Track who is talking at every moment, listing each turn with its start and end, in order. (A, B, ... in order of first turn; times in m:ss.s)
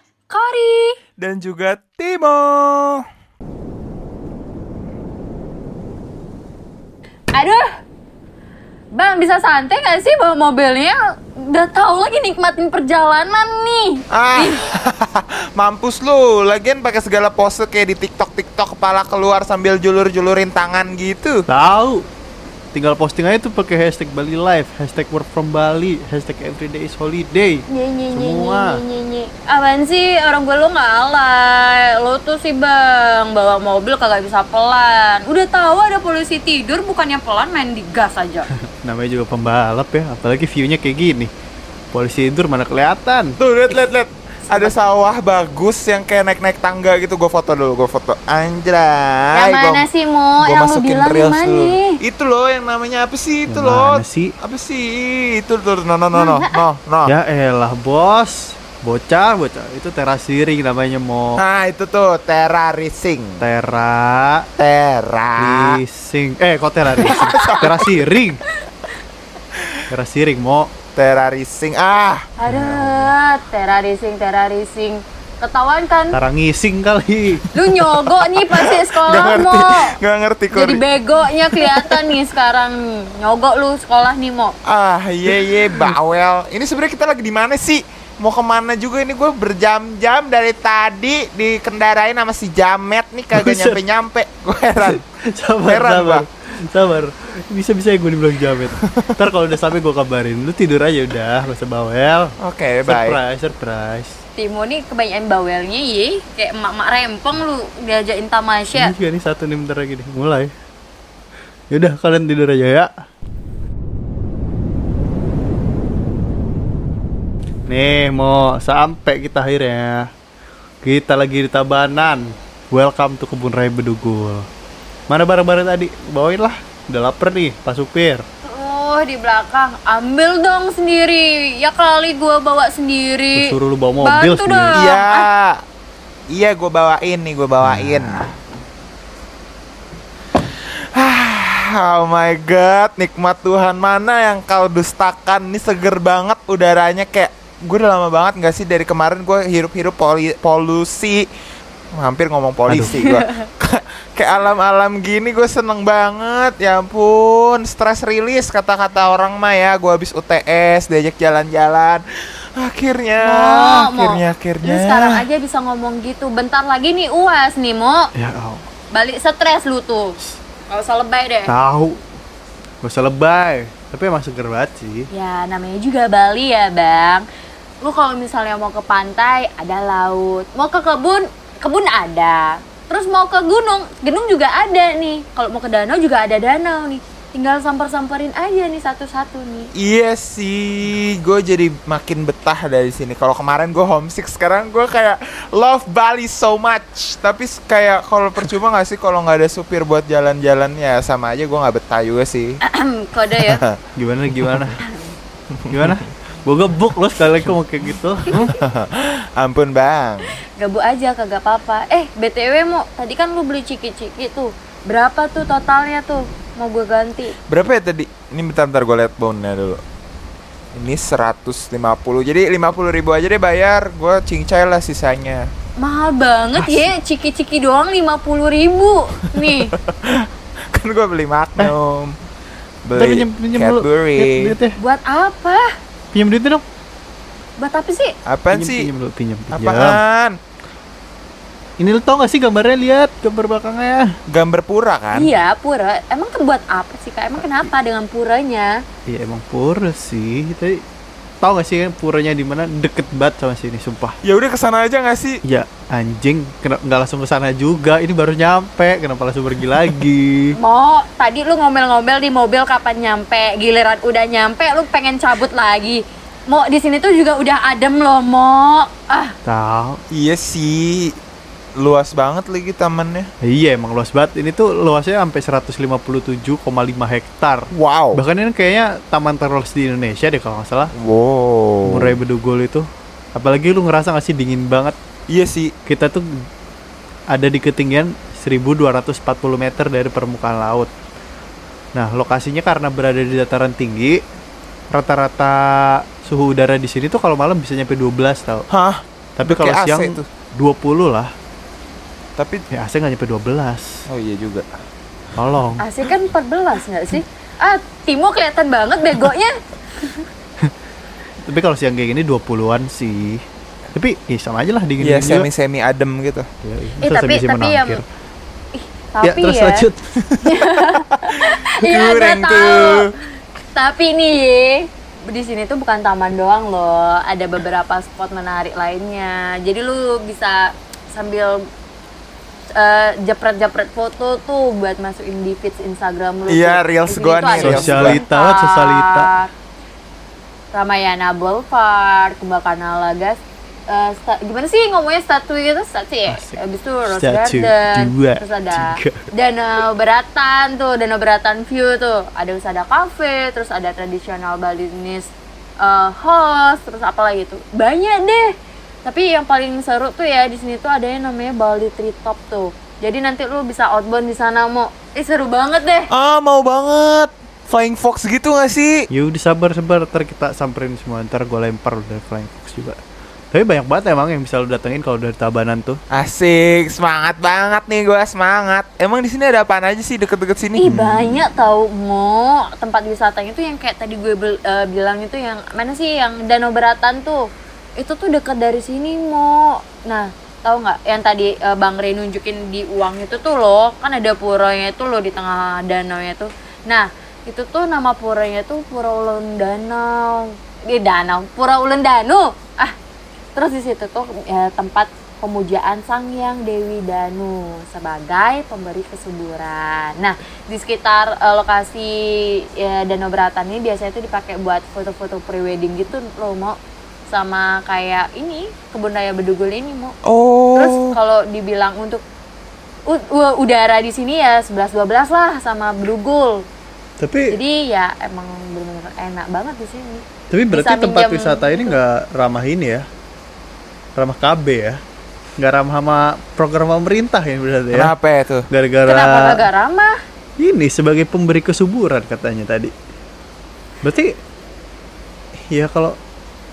0:00.3-0:01.0 A
0:01.2-0:03.0 B
0:07.3-0:07.7 A
0:08.9-0:14.6 A
0:14.1-0:21.4 B
0:21.5-0:22.0 C
0:22.7-0:28.8 C
0:27.7-0:38.5 A
0:38.7-0:41.3 C
0:41.9-0:43.4 C
0:43.4-0:49.9 B
0:49.3-0:52.0 A
0:50.4-0:57.1 B
0:53.5-0:54.3 C
0:56.1-0:56.6 A
0:57.0-1:01.4 C
1:01.4-1:03.5 B
1:03.4-1:04.5 C
1:04.6-1:05.8 B
1:05.4-1:08.4 C
1:07.0-1:07.8 A
1:07.0-1:08.0 B
1:09.9-1:10.7 C
1:10.9-1:12.3 B
1:12.4-1:16.2 A
1:12.4-1:13.1 C
1:16.1-1:17.5 C
1:17.5-1:20.0 A
1:18.3-1:20.8 B
1:20.5-1:24.5 A
1:21.4-1:22.0 B
1:24.6-1:35.0 B
1:25.2-1:26.0 C
1:33.3-1:33.8 C
1:34.8-1:44.2 C
1:35.7-1:36.2 B
1:38.7-1:39.0 B
1:42.4-1:43.2 B
1:44.4-1:48.9 A
1:48.7-1:50.5 C
1:51.7-1:52.9 C
1:57.7-2:00.1 C
2:00.8-2:04.5 C
2:05.1-2:08.2 C
2:08.4-2:15.3 A
2:13.3-2:14.8 C
2:14.7-2:15.5 B
2:16.3-2:18.2 B
2:17.6-2:18.2 C
2:20.9-2:31.2 B
2:32.0-2:42.0 B
2:32.7-2:33.1 C
2:42.6-2:45.2 B
2:43.2-2:48.1 A
2:48.2-2:48.6 C
2:48.9-2:51.5 A
2:51.5-2:52.0 C
2:52.8-2:55.1 C
2:55.1-2:57.2 A
2:57.8-3:09.7 A
3:09.8-3:22.6 B
3:22.6-3:23.6 A
3:23.4-3:23.8 B
3:24.0-3:24.8 C
3:24.4-3:24.7 B
3:24.8-3:25.2 A
3:25.7-3:26.0 B
3:25.7-3:28.5 C
3:28.3-3:28.6 A
3:28.3-3:30.3 B
3:30.6-3:37.3 A
3:37.5-3:39.8 B
3:40.7-3:45.5 B
3:45.8-3:49.7 A
3:46.5-3:46.9 C
3:49.4-3:52.1 B
3:52.8-3:54.6 B
3:52.9-3:54.8 C
3:54.8-3:55.7 A
3:56.1-3:56.6 C
3:57.6-3:58.1 A
3:58.2-3:58.9 B
3:58.5-4:00.0 C
3:59.5-4:00.4 B
4:01.8-4:04.1 C
4:04.3-4:05.3 B
4:05.1-4:08.8 A
4:09.1-4:10.8 C
4:11.4-4:14.2 C
4:14.2-4:15.4 B
4:15.4-4:20.6 C
4:20.6-4:29.3 A
4:29.4-4:30.0 C
4:30.1-4:31.2 B
4:31.8-4:33.3 B
4:33.4-4:40.9 C
4:37.7-4:38.2 B
4:41.0-4:42.2 B
4:41.8-4:45.0 C
4:45.3-4:45.7 B
4:45.8-4:46.4 C
4:47.3-4:50.9 C
4:51.9-4:54.2 C
4:54.9-4:58.7 C
4:58.7-5:00.3 B
4:59.4-5:01.3 C
5:02.4-5:02.6 B
5:02.7-5:04.0 C
5:04.1-5:04.7 B
5:05.4-5:05.8 C
5:05.8-5:10.2 A
5:11.4-5:15.5 C
5:15.0-5:16.5 B
5:16.6-5:18.0 C
5:17.0-5:18.0 A
5:18.7-5:19.9 A
5:19.2-5:20.0 C
5:20.4-5:23.1 A
5:21.2-5:23.1 B
5:23.7-5:31.6 A
5:32.7-5:39.5 A
5:36.5-5:38.2 B
5:37.6-5:39.3 C
5:40.7-5:58.5 A
5:46.3-5:49.3 C
5:59.0-6:06.1 A
6:06.1-6:09.0 B
6:09.1-6:13.0 C
6:13.5-6:16.0 C
6:16.1-6:21.0 B
6:20.8-6:27.4 A
6:20.9-6:21.4 C
6:28.0-6:42.9 A
6:43.6-6:56.8 A
6:57.3-7:00.2 A
7:00.2-7:01.2 B
7:00.7-7:02.2 A
7:03.1-7:06.6 A
7:07.2-7:07.5 C
7:07.5-7:12.0 A
7:10.5-7:13.0 C
7:14.2-7:15.0 C
7:15.6-7:18.1 C
7:17.9-7:18.7 B
7:18.7-7:19.7 C
7:19.0-7:20.1 A
7:20.6-7:22.9 C
7:24.0-7:24.4 C
7:25.7-7:26.2 C